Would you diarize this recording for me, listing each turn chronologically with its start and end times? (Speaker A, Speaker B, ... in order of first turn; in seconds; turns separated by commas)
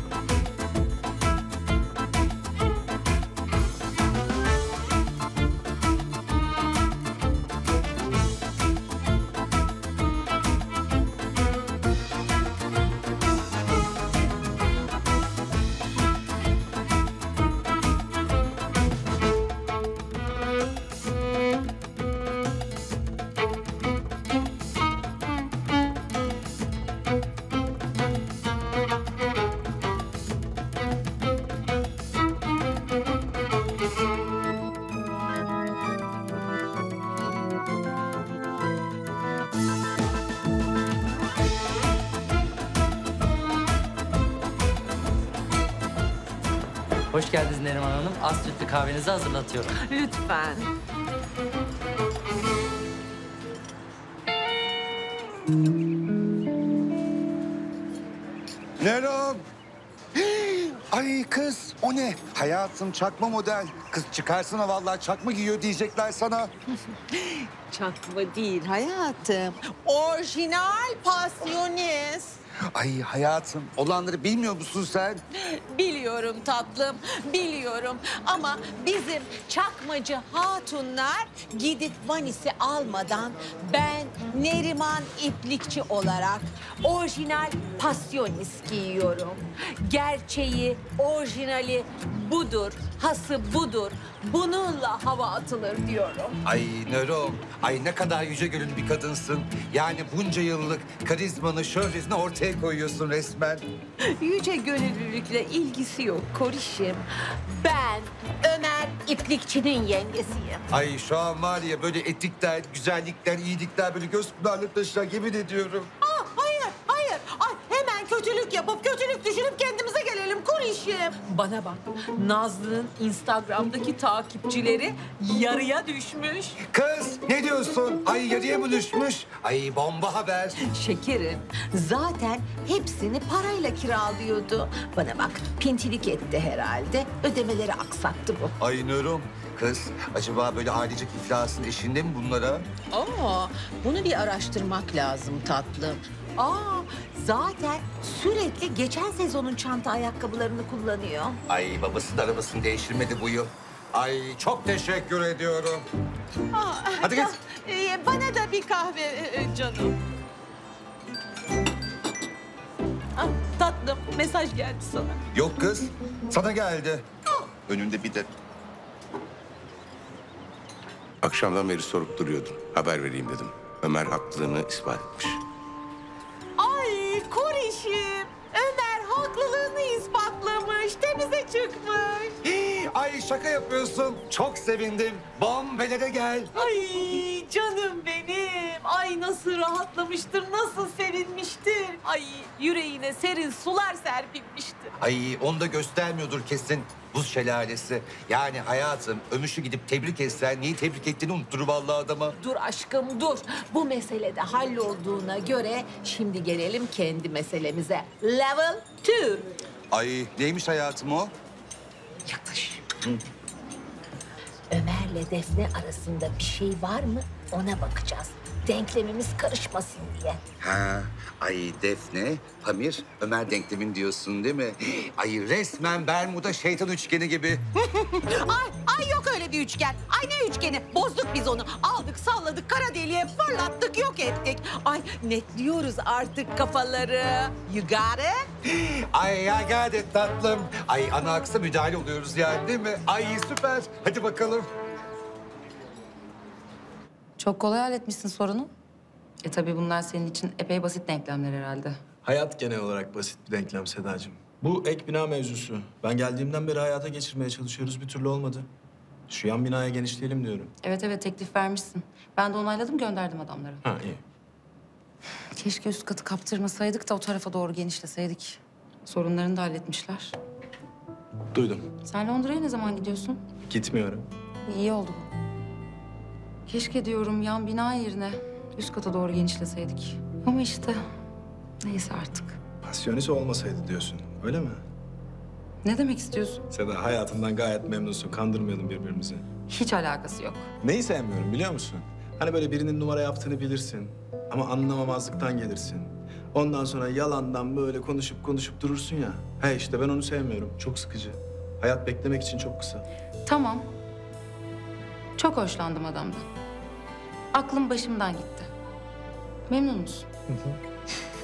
Speaker A: 47.1-49.7, Speaker B: 49.8-50.7, Speaker C: 58.8-59.4, Speaker C: 60.2-66.5, Speaker B: 67.1-72.4, Speaker C: 72.7-75.2, Speaker B: 75.5-96.3, Speaker C: 96.4-103.6, Speaker B: 104.1-110.6, Speaker C: 110.7-115.9, Speaker B: 116.0-126.6, Speaker C: 126.7-130.5, Speaker B: 130.6-138.5, Speaker C: 138.6-142.7, Speaker B: 142.9-151.4, Speaker C: 151.5-155.8, Speaker B: 156.5-159.9, Speaker C: 157.0-157.3, Speaker B: 163.2-165.2, Speaker C: 165.3-167.1, Speaker D: 171.2-175.4, Speaker B: 176.6-182.3, Speaker C: 182.4-186.6, Speaker B: 186.5-194.9, Speaker C: 195.0-202.3, Speaker B: 202.4-209.5, Speaker C: 209.9-211.3, Speaker B: 212.2-212.8, Speaker B: 214.7-220.4, Speaker C: 220.6-227.6, Speaker B: 228.2-238.5, Speaker C: 239.1-244.7, Speaker E: 247.4-248.7, Speaker E: 249.4-252.0, Speaker F: 252.2-258.7, Speaker F: 259.3-260.7, Speaker E: 260.8-263.9, Speaker F: 263.8-264.2, Speaker E: 265.5-270.3, Speaker F: 271.5-271.9, Speaker E: 272.0-273.4, Speaker F: 273.6-274.2, Speaker E: 274.7-275.3, Speaker E: 276.7-281.0, Speaker E: 281.8-282.6, Speaker F: 282.8-284.8, Speaker E: 285.8-286.6, Speaker F: 286.7-289.4, Speaker E: 289.7-290.7, Speaker F: 290.8-303.0, Speaker E: 303.4-303.9, Speaker E: 305.4-306.4, Speaker E: 307.5-308.7, Speaker E: 309.7-310.3